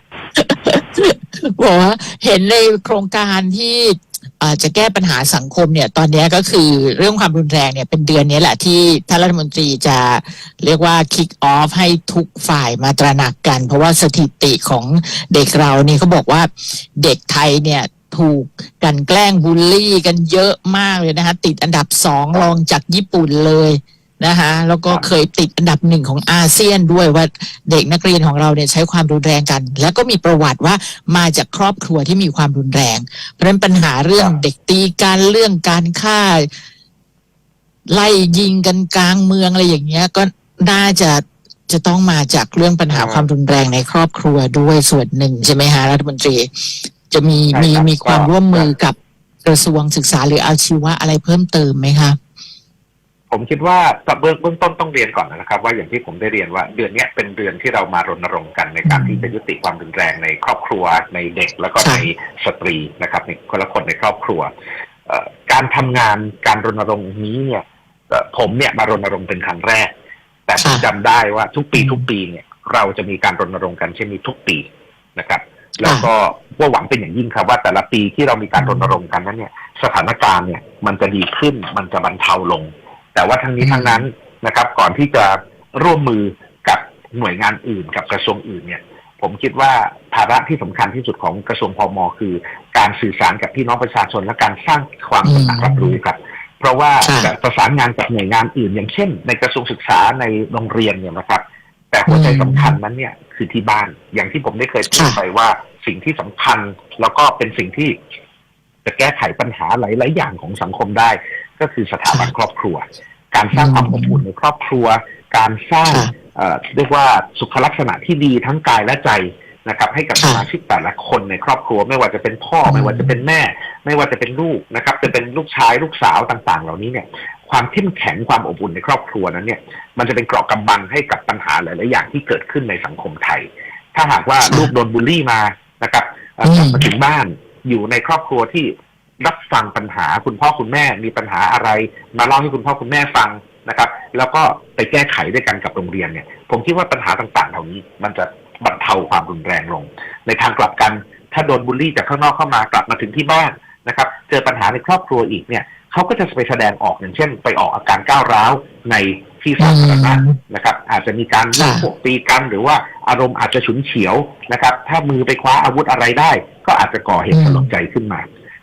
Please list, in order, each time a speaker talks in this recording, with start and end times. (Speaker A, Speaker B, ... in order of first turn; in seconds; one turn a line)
Speaker A: 0.3-36.5
Speaker A: 37.9-52.2
Speaker B: 42.9-43.3
Speaker B: 47.5-48.7
Speaker B: 53.3-64.5
Speaker A: 58.9-59.3
Speaker A: 61.8-62.0
Speaker B: 65.1-69.9
Speaker B: 70.5-74.6
Speaker A: 70.6-70.9
Speaker A: 71.7-72.0
Speaker B: 75.2-107.9
Speaker A: 75.8-76.1
Speaker A: 78.6-79.0
Speaker A: 83.6-84.0
Speaker A: 95.2-96.0
Speaker A: 97.0-97.3
Speaker A: 102.1-102.8
Speaker A: 104.9-105.2
Speaker B: 108.8-168.2
Speaker A: 113.5-114.2
Speaker A: 120.2-120.4
Speaker A: 122.7-123.1
Speaker A: 134.4-134.7
Speaker A: 136.4-136.9
Speaker A: 159.6-160.4
Speaker A: 161.6-161.9
Speaker A: 167.3-167.7